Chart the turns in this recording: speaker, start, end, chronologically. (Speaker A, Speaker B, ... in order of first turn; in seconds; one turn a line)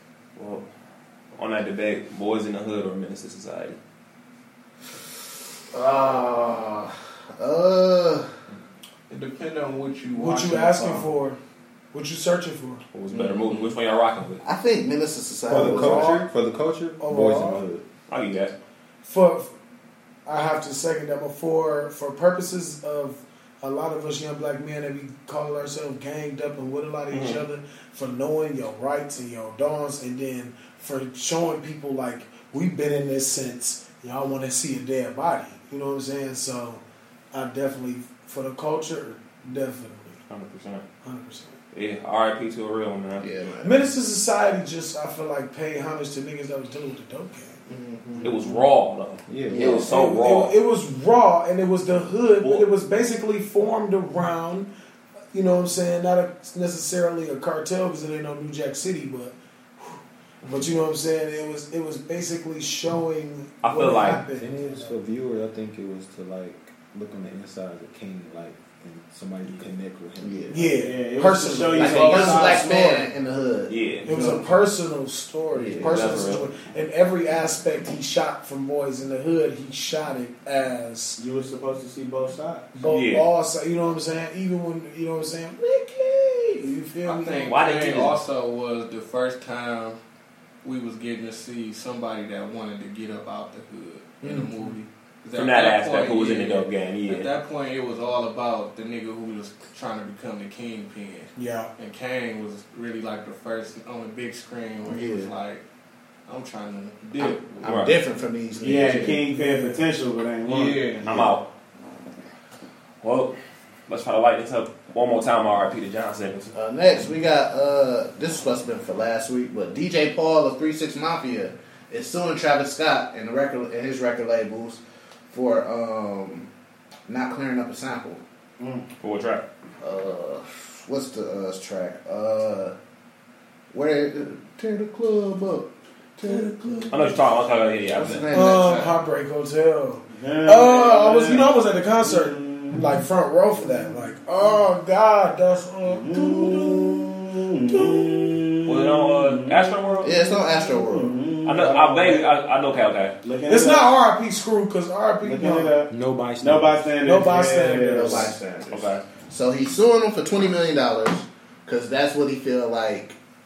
Speaker A: 0.4-0.7
Speaker A: 1.4-3.8
Speaker B: 5.7-8.3
Speaker C: 9.1-11.1
Speaker D: 10.1-11.4
Speaker D: 11.9-12.8
Speaker A: 12.9-14.4
Speaker B: 13.1-13.6
Speaker B: 14.4-16.2
Speaker E: 15.5-17.9
Speaker D: 15.5-16.3
Speaker D: 17.0-17.6
Speaker A: 18.1-18.5
Speaker D: 19.0-19.5
Speaker D: 20.3-40.2
Speaker A: 27.1-27.4
Speaker A: 40.3-40.8
Speaker D: 41.0-41.6
Speaker A: 41.7-43.3
Speaker B: 43.2-43.9
Speaker D: 43.6-47.6
Speaker B: 47.7-48.4
Speaker A: 48.2-50.5
Speaker E: 49.3-49.8
Speaker B: 49.5-49.9
Speaker D: 49.8-54.7
Speaker D: 55.3-65.0
Speaker A: 63.6-64.2
Speaker E: 64.2-70.6
Speaker B: 70.2-70.5
Speaker D: 70.5-72.8
Speaker F: 70.6-73.0
Speaker B: 71.8-74.5
Speaker A: 73.7-74.1
Speaker D: 74.0-81.2
Speaker B: 75.5-76.0
Speaker A: 75.8-76.5
Speaker F: 81.2-82.7
Speaker D: 82.7-87.5
Speaker A: 82.9-83.2
Speaker B: 85.9-86.5
Speaker C: 87.0-90.0
Speaker A: 87.5-88.2
Speaker C: 90.6-105.6
Speaker A: 95.3-97.4
Speaker D: 101.4-101.7
Speaker B: 104.9-105.3
Speaker C: 106.3-107.7
Speaker A: 107.2-108.0
Speaker B: 107.6-109.2
Speaker F: 108.6-110.9
Speaker C: 108.8-109.2
Speaker D: 109.3-109.8
Speaker C: 110.4-111.2
Speaker A: 111.0-111.5
Speaker B: 111.1-111.3
Speaker A: 113.0-113.3
Speaker A: 113.9-116.5
Speaker B: 116.5-124.8
Speaker B: 125.3-126.5
Speaker B: 127.1-128.2
Speaker F: 128.6-128.9
Speaker A: 129.0-129.4
Speaker B: 129.8-132.8
Speaker B: 133.7-137.2
Speaker A: 136.9-138.3
Speaker B: 137.9-139.0
Speaker D: 138.3-147.1
Speaker F: 140.1-143.0
Speaker F: 145.9-152.3
Speaker B: 146.1-146.8
Speaker D: 147.7-148.2
Speaker A: 148.7-150.1
Speaker B: 150.0-151.2
Speaker A: 151.4-153.1
Speaker F: 153.2-153.9
Speaker D: 153.5-155.8
Speaker F: 155.2-158.3
Speaker E: 155.9-156.9
Speaker D: 157.0-158.3
Speaker B: 157.9-163.2
Speaker A: 158.7-159.0